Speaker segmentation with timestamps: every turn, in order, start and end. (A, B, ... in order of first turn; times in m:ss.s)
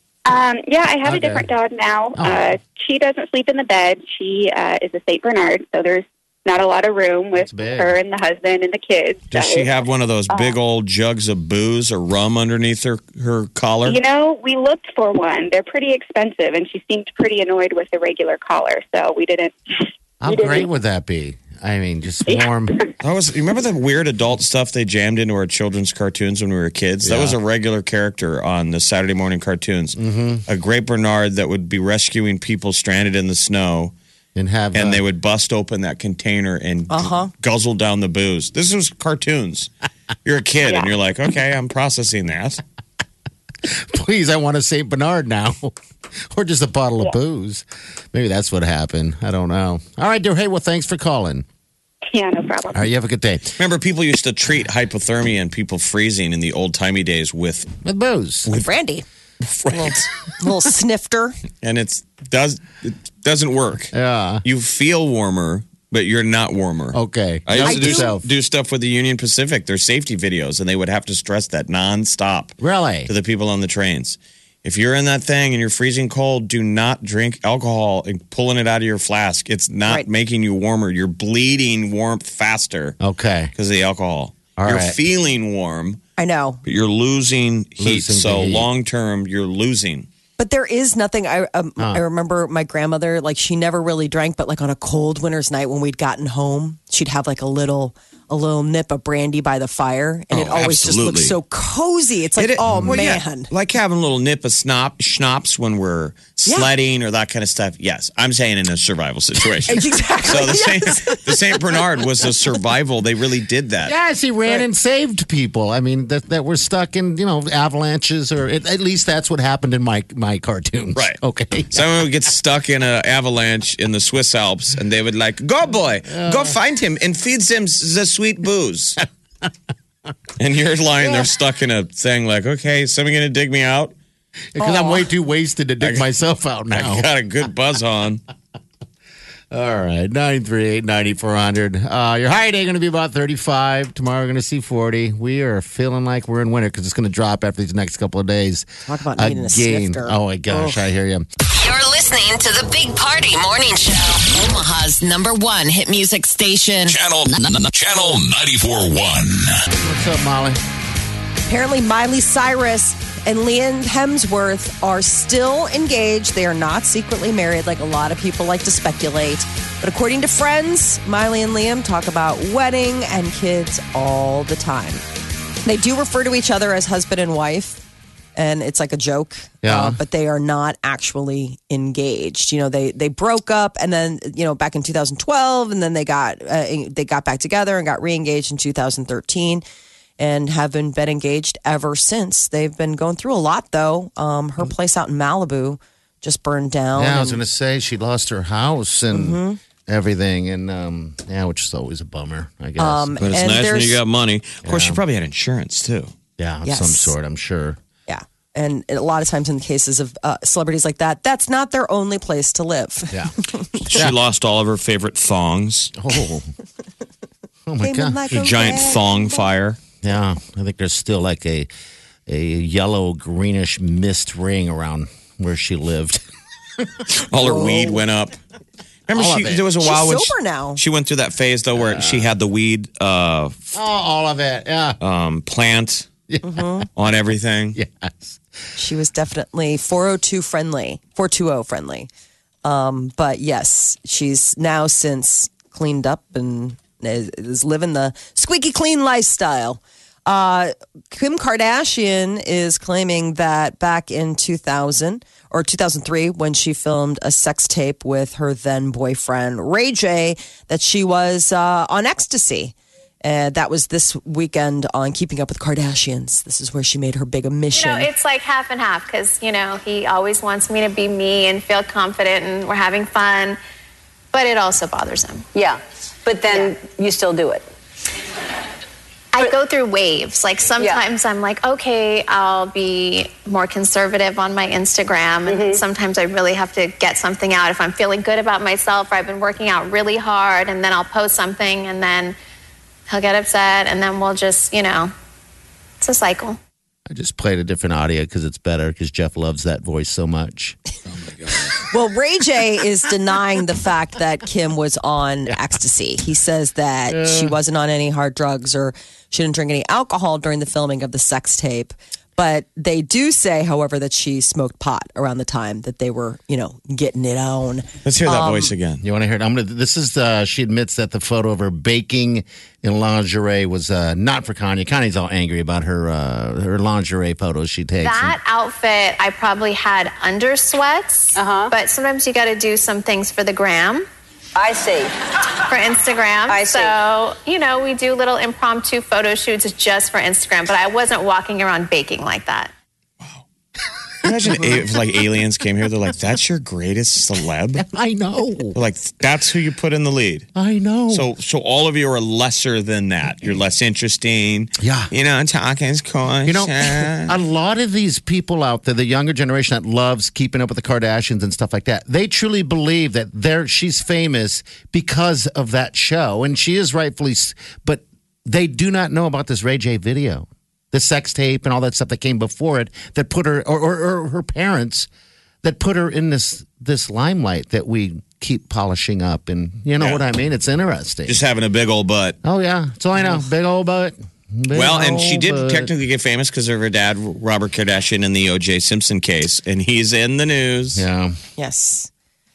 0:00.3-0:09.7 A
0:01.0-0:01.5 B
0:02.2-0:02.6 B
0:07.4-0:08.0 B
0:09.3-0:14.0 C
0:10.3-0:10.6 A
0:13.8-0:20.7 A
0:20.2-0:22.8 B
0:22.3-0:22.9 A
0:23.0-0:34.0 C
0:27.0-0:27.4 B
0:30.0-0:30.4 B
0:34.4-0:35.0 B
0:34.7-0:39.7 C
0:36.9-0:37.3 D
0:40.2-0:42.6 C
0:40.6-0:40.9 A
0:43.6-0:45.8 B
0:46.3-0:51.5 B
0:52.1-0:52.8 A
0:52.7-0:53.6 B
0:53.6-0:57.7 C
0:57.8-0:58.5 B
0:58.5-0:59.0 D
0:59.5-1:00.0 C
0:59.7-1:01.4 D
1:01.6-1:03.9 C
1:03.9-1:04.4 B
1:04.4-1:12.6 C
1:06.9-1:08.2 B
1:07.6-1:08.1 D
1:12.6-1:13.1 B
1:13.1-1:23.0 C
1:23.0-1:23.5 B
1:23.6-1:26.0 C
1:24.6-1:25.0 B
1:26.2-1:26.6 D
1:26.6-1:30.1 C
1:27.8-1:28.7 B
1:30.4-1:43.5 D
1:31.8-1:32.0 B
1:40.3-1:41.4 C
1:42.4-1:53.9 C
1:42.6-1:43.1 B
1:49.4-1:52.3 D
1:53.8-2:01.9 B
2:01.7-2:09.0 C
2:06.1-2:06.6 B
2:10.4-2:13.9 C
2:14.6-2:17.1 B
2:14.6-2:15.1 D
2:16.7-2:18.2 C
2:19.5-2:31.3 B
2:28.9-2:30.8 D
2:31.4-2:34.7 E
2:34.3-2:37.0 D
2:36.8-2:39.5 F
2:39.8-2:40.6 B
2:41.5-2:55.0 D
2:55.6-2:57.8 D
2:58.4-3:09.6 D
2:59.6-3:00.0 B
3:10.2-3:17.4 D
3:17.0-3:23.2 B
3:19.1-3:19.6 D
3:22.8-3:24.0 D
3:23.2-3:26.1 C
3:24.6-3:25.0 B
3:26.4-3:27.8 B
3:26.6-3:27.2 D
3:28.1-3:34.0 D
3:33.9-3:35.9 C
3:36.0-3:36.5 B
3:37.7-3:38.5 B
3:37.8-3:39.4 D
3:38.3-3:39.8 C
3:40.0-3:41.7 B
3:42.3-3:46.2 B
3:46.8-3:47.9 B
3:47.1-3:48.3 C
3:49.1-3:53.7 C
3:49.1-3:49.6 B
3:49.8-3:50.8 D
3:51.8-3:52.3 B
3:53.7-3:55.0 B
3:55.0-3:56.1 C
3:56.3-3:56.6 B
3:56.4-3:56.9 D
3:57.0-3:57.8 C
3:57.8-3:58.4 B
3:58.8-4:02.1 D
4:02.6-4:28.1 D
4:27.7-4:33.6 G
4:34.3-4:35.5 G
4:35.6-4:37.7 H
4:39.3-4:52.4 G
4:45.5-4:45.8 H
4:53.1-4:55.1 G
4:56.0-4:56.6 G
4:57.1-5:00.8 B
5:01.9-5:18.7 D
5:07.1-5:07.6 B
5:18.0-5:19.0 C
5:19.0-5:28.4 B
5:28.0-5:34.1 G
5:31.4-5:31.7 H
5:34.6-5:35.1 H
5:35.7-5:42.7 G
5:36.5-5:37.0 H
5:44.2-5:47.8 C
5:44.2-5:44.8 B
5:47.8-5:48.8 B
5:48.8-5:50.5 C
5:50.6-5:51.3 B
5:51.1-5:57.4 C
5:54.8-5:55.1 B
5:56.4-6:15.1 B
6:15.6-6:21.4 B
6:21.3-6:22.4 C
6:22.4-6:25.9 B
6:24.7-6:31.0 C
6:31.0-6:31.4 B
6:31.6-6:32.1 D